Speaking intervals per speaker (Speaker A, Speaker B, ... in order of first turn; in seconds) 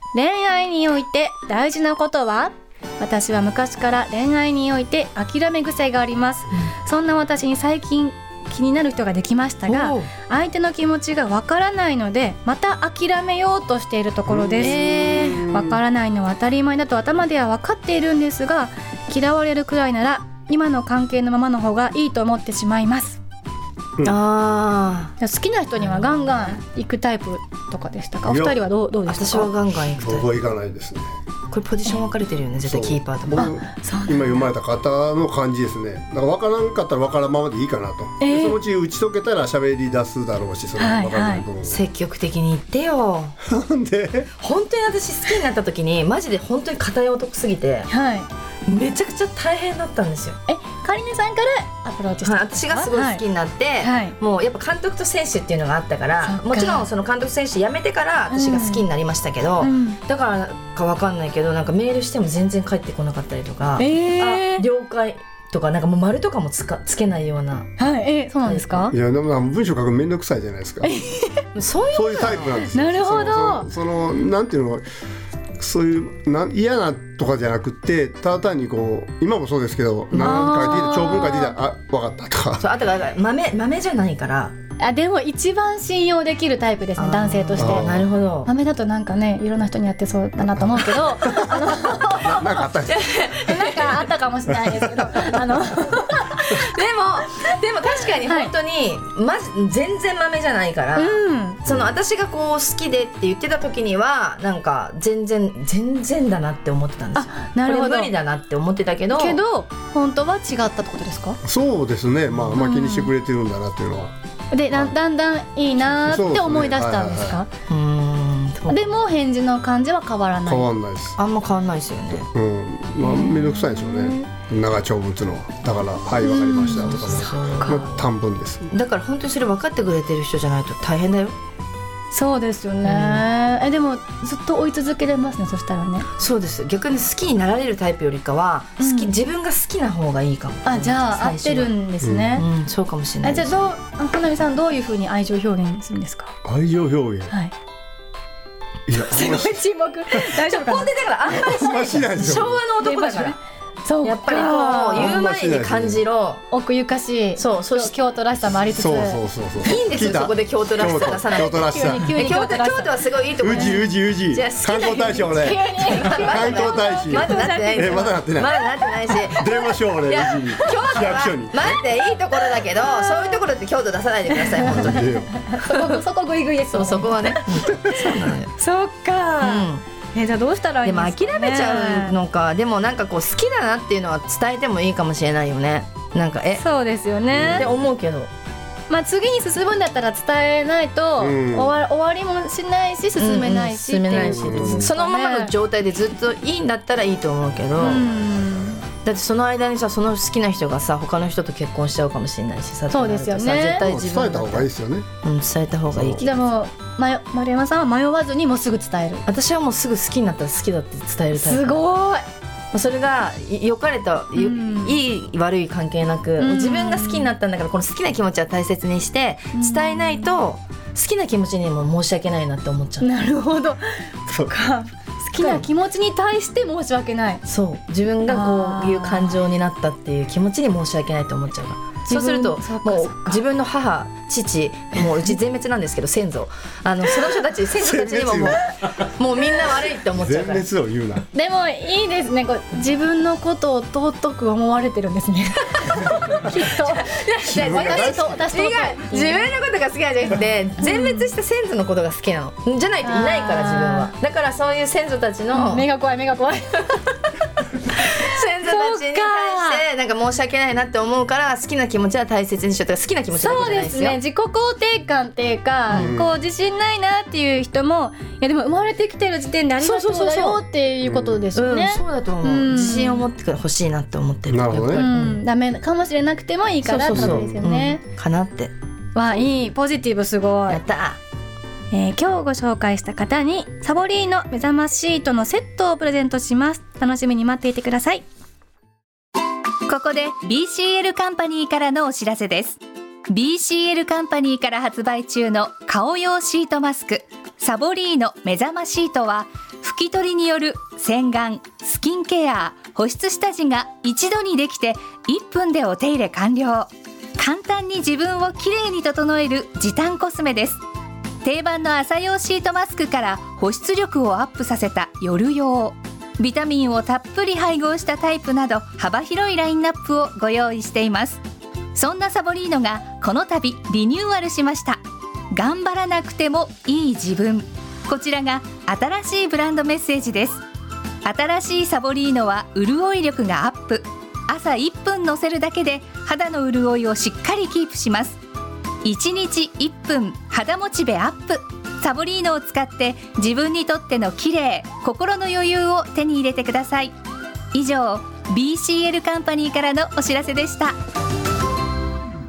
Speaker A: 0.1-23.2, 25.2-29.5, 33.3-34.5, 38.2-38.6, 40.8-41.4, 47.9-48.3, 50.5-53.2, 53.8-54.1, 56.2-56.9, 58.3-58.8, 59.6-60.0, 63.8-64.6, 67.8-68.9, 70.8-71.4, 72.6-73.7, 80.1-81.5, 84.8-87.9, 88.4-96.6, 98.2-98.5, 100.9-101.6, 107.1-108.1, 109.1-111.4, 112.5-113.1, 114.5-117.5, 118.7-120.7, 123.0-124.2, 126.2-127.8, 132.1-136.1, 138.8-139.2, 140.6-142.4, 143.2-146.3, 149.1-151.5, 152.8-155.2, 156.5-159.2, 161.2-162.9, 163.5-163.8, 165.3-169.7, 170.5-170.8, 172.7-173.4, 174.3-177.5, 178.5-182.2, 186.6-187.7, 188.9-195.5, 197.8-198.8, 202.9-203.8, 206.2-209.2, 211.3-212.2, 214.3-215.0, 216.4-217.3, 219.5-220.3, 223.0-227.4, 228.2-229.4, 232.1-233.4, 241.3-249.5, 250.8-251.3, 253.0-254.1, 255.5-257.2, 258.6-259.8, 263.3-273.2, 274.9-278.0, 279.1-280.8, 281.9-288.2
Speaker B: 9.7-10.1, 14.6-15.7, 24.0-25.1, 25.8-26.6, 29.1-30.3, 31.5-33.5, 41.6-43.3, 44.4-47.9, 48.6-50.4, 52.2-67.7, 68.4-68.9, 71.5-72.7, 80.1-80.5, 82.6-84.5, 87.0-88.5, 92.9-94.1, 96.4-109.4, 117.7-118.8, 121.2-122.3, 126.9-128.1, 128.7-131.3, 132.8-133.3, 136.2-141.7, 142.4-143.7, 150.4-153.3, 154.0-156.4, 157.4-157.9, 159.6-169.5, 170.1-175.1, 175.6-176.0, 176.7-178.5, 179.4-179.8, 180.8-186.6, 187.5-188.3, 193.2-198.1, 199.0-204.7, 205.2-206.5, 209.3-211.8, 212.7-223.1, 225.4-225.6, 227.4-240.7, 247.0-255.9, 258.0-264.2, 265.9-266.1, 269.8-270.6, 271.5-275.4, 276.8-278.7, 280.7-281.2
Speaker C: 14.2-15.6, 28.2-28.6, 30.0-31.1, 32.6-41.8, 43.4-44.3, 68.9-71.0, 71.9-74.8, 75.6-82.6, 87.6-88.1, 90.4-93.0, 94.5-95.3, 111.4-114.1, 116.0-117.4, 120.4-121.2, 122.3-128.7, 142.0-142.4, 146.4-147.3, 148.9-149.6, 151.3-152.6, 154.9-156.0, 158.7-162.2, 163.4-168.6, 169.1-171.8, 174.7-175.3, 187.3-187.7, 191.2-191.7, 194.2-194.9, 197.8-198.6, 203.8-205.1, 205.9-206.2, 237.8-238.6, 240.1-241.3, 247.4-248.4, 265.9-266.3, 271.0-271.4, 274.5-275.1, 277.0-277.6
Speaker D: 289.9-310.8, 311.4-321.4, 321.9-325.0, 325.5-330.6, 331.2-338.4, 339.0-347.1, 347.7-350.9